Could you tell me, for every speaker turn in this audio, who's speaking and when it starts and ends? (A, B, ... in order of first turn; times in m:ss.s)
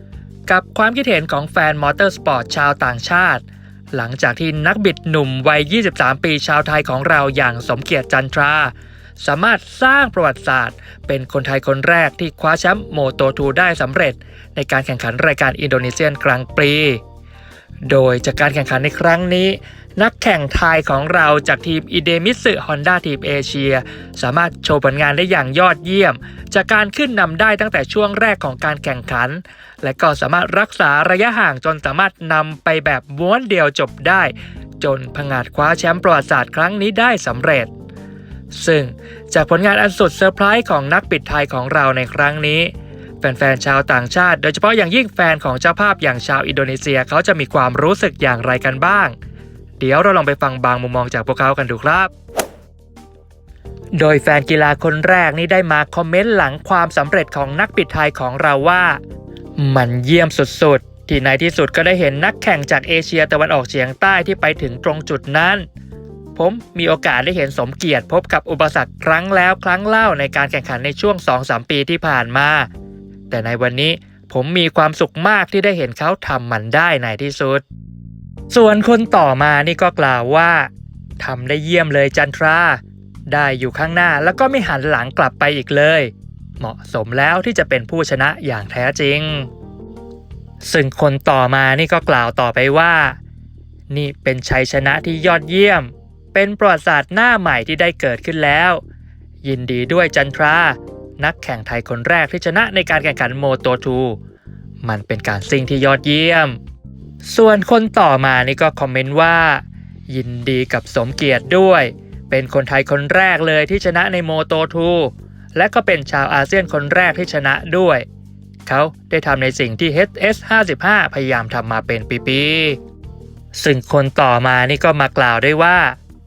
0:00.5-0:17.0 A
0:17.9-0:37.7 A
0:38.5-0:49.2 A
0:49.8-0:52.1 A
0:54.0-0:59.0 A
0:59.6-1:05.6 A
1:06.4-1:12.7 A
1:13.3-1:17.6 A
1:18.5-1:20.7 A
1:21.2-1:29.5 A
1:30.6-1:33.2 A
1:33.9-1:38.8 A
1:39.4-1:44.2 A
1:44.8-1:46.6 A
1:47.2-1:58.0 A
1:58.7-2:02.8 A
2:03.6-2:06.0 A